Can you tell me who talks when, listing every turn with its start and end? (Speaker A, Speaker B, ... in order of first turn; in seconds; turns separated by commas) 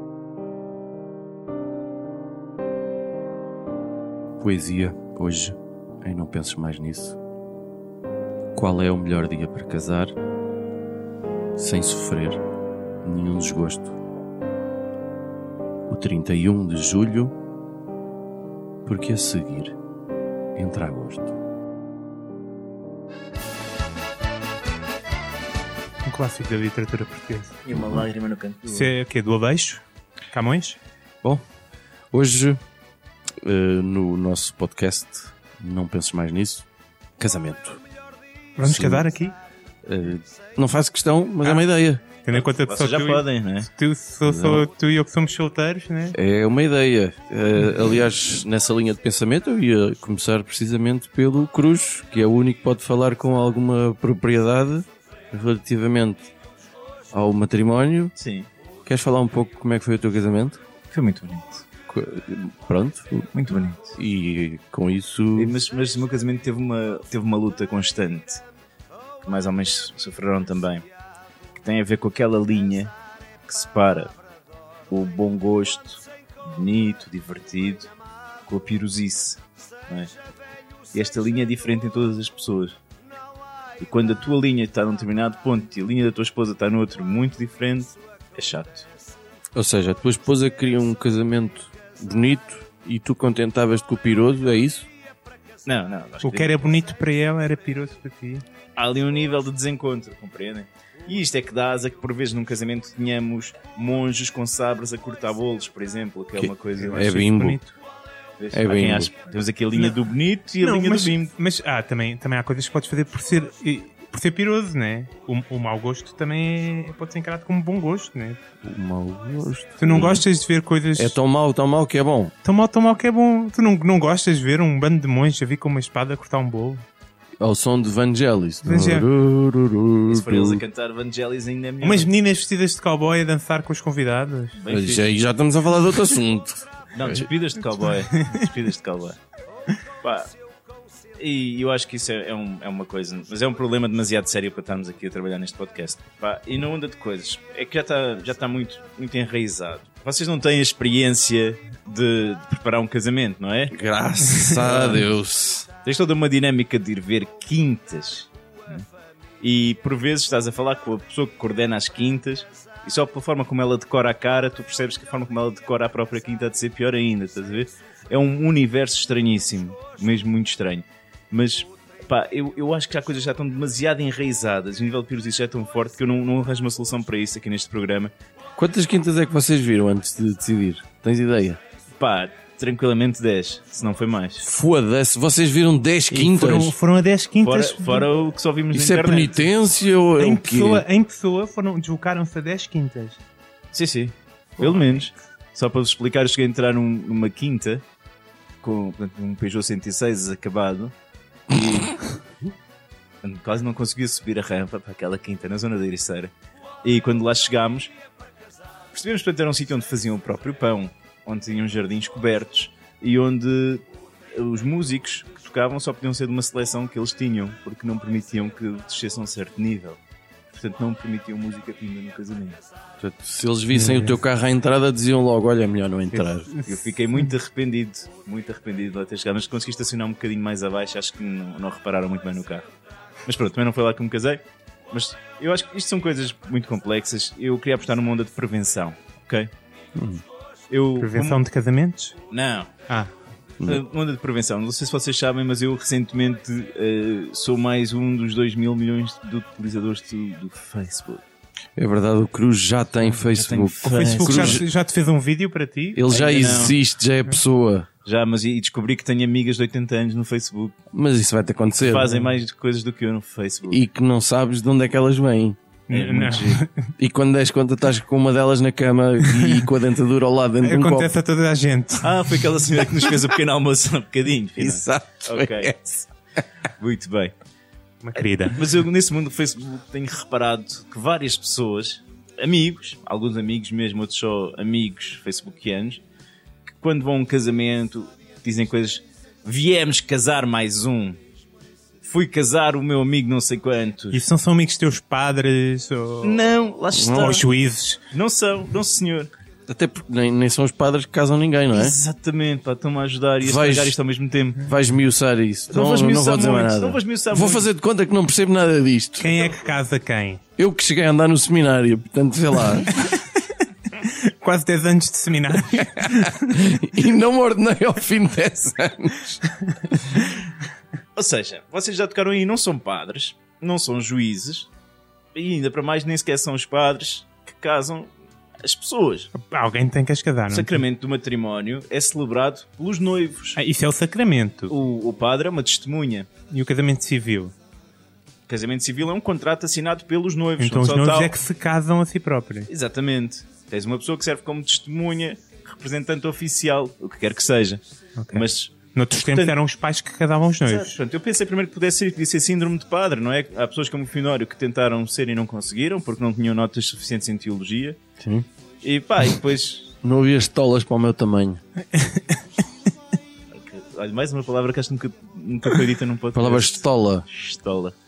Speaker A: 4.4-7.2, Speaker A: 8.5-10.1, Speaker A: 11.6-12.4, Speaker A: 13.0-14.0, Speaker A: 15.9-17.3, Speaker A: 18.9-19.8, Speaker A: 20.6-21.3, Speaker B: 26.1-27.6, Speaker C: 27.7-28.9, Speaker B: 28.7-30.8, Speaker A: 32.1-32.6, Speaker A: 33.4-36.6, Speaker A: 37.2-37.8, Speaker B: 38.6-39.4, Speaker A: 38.6-39.1, Speaker A: 39.9-42.0, Speaker B: 42.2-46.2, Speaker C: 42.3-43.7, Speaker A: 44.2-44.7, Speaker A: 46.1-56.3, Speaker A: 57.1-58.1, Speaker C: 58.2-58.5, Speaker A: 58.9-60.6, Speaker C: 60.9-61.6, Speaker A: 61.9-63.3, Speaker C: 63.3-64.0, Speaker A: 64.0-65.6, Speaker C: 65.3-68.4, Speaker C: 69.2-70.9, Speaker C: 71.5-72.9, Speaker C: 73.5-74.1, Speaker C: 74.9-77.9, Speaker C: 78.5-80.1, Speaker C: 80.9-82.8, Speaker C: 83.8-88.9, Speaker A: 89.5-94.9, Speaker C: 95.7-96.7, Speaker B: 96.2-98.5, Speaker C: 98.8-107.3, Speaker A: 106.4-107.6, Speaker B: 106.8-107.7, Speaker C: 108.4-111.3, Speaker A: 108.5-109.1, Speaker B: 110.6-118.4, Speaker A: 118.6-120.2, Speaker B: 119.8-121.2, Speaker A: 121.0-122.3, Speaker B: 122.4-126.8, Speaker A: 127.4-130.6, Speaker B: 128.7-129.1, Speaker C: 130.1-132.1, Speaker B: 131.8-134.6, Speaker C: 134.6-135.1, Speaker A: 134.7-137.3, Speaker C: 136.9-139.2, Speaker C: 140.0-140.3, Speaker C: 141.2-153.8, Speaker A: 153.7-155.7, Speaker B: 154.3-154.6, Speaker C: 154.5-155.1, Speaker C: 155.8-158.9, Speaker C: 159.4-178.1, Speaker A: 178.6-181.6, Speaker C: 182.0-184.4, Speaker A: 184.4-186.8, Speaker B: 186.1-188.1, Speaker C: 187.4-189.5, Speaker A: 188.7-190.8, Speaker B: 190.2-193.2, Speaker C: 193.7-197.8, Speaker B: 194.6-195.0, Speaker C: 198.6-200.9, Speaker C: 201.5-202.1, Speaker C: 203.2-206.3, Speaker C: 206.8-207.9, Speaker C: 208.9-213.8, Speaker C: 214.3-220.0, Speaker C: 220.5-222.6, Speaker A: 223.0-226.5, Speaker B: 223.7-224.2, Speaker B: 226.1-226.8, Speaker C: 226.7-232.7, Speaker C: 233.3-239.5, Speaker A: 240.0-240.2, Speaker C: 240.7-241.4, Speaker B: 241.0-242.2, Speaker C: 242.3-242.7, Speaker C: 243.6-251.2, Speaker A: 251.8-254.6, Speaker C: 253.1-254.6, Speaker B: 253.8-256.1, Speaker A: 255.9-257.9, Speaker C: 256.1-256.8, Speaker C: 258.1-260.8, Speaker A: 260.9-262.2, Speaker C: 261.8-263.8, Speaker A: 263.7-265.6, Speaker B: 265.9-266.9, Speaker C: 265.9-266.6, Speaker A: 267.0-271.1, Speaker B: 269.4-269.6, Speaker B: 270.6-272.2, Speaker C: 272.0-275.8, Speaker A: 274.6-276.1, Speaker C: 276.8-277.3, Speaker B: 278.0-278.6, Speaker C: 278.2-286.0, Speaker C: 286.7-291.2, Speaker C: 292.0-294.2, Speaker B: 294.1-296.5, Speaker C: 296.2-297.5, Speaker A: 296.9-297.4, Speaker B: 297.1-298.0, Speaker C: 298.1-299.3, Speaker A: 299.7-302.0, Speaker C: 301.7-304.7, Speaker A: 303.4-303.9, Speaker A: 304.6-309.4, Speaker C: 305.7-307.7, Speaker B: 309.2-310.4, Speaker A: 310.6-313.0, Speaker B: 314.0-316.8, Speaker A: 315.8-319.4, Speaker C: 321.2-324.7, Speaker C: 325.4-328.1, Speaker C: 328.6-329.3, Speaker B: 329.4-330.8, Speaker C: 330.5-333.6, Speaker B: 333.6-334.8, Speaker C: 334.7-336.3, Speaker B: 336.5-337.5, Speaker C: 338.5-341.4, Speaker B: 340.6-342.7, Speaker C: 342.7-347.8, Speaker B: 348.2-351.0, Speaker C: 348.3-349.6, Speaker C: 350.7-358.0, Speaker A: 358.2-358.5, Speaker C: 358.8-359.9, Speaker A: 360.0-361.6, Speaker B: 361.9-362.4, Speaker C: 363.5-367.9, Speaker A: 366.3-367.3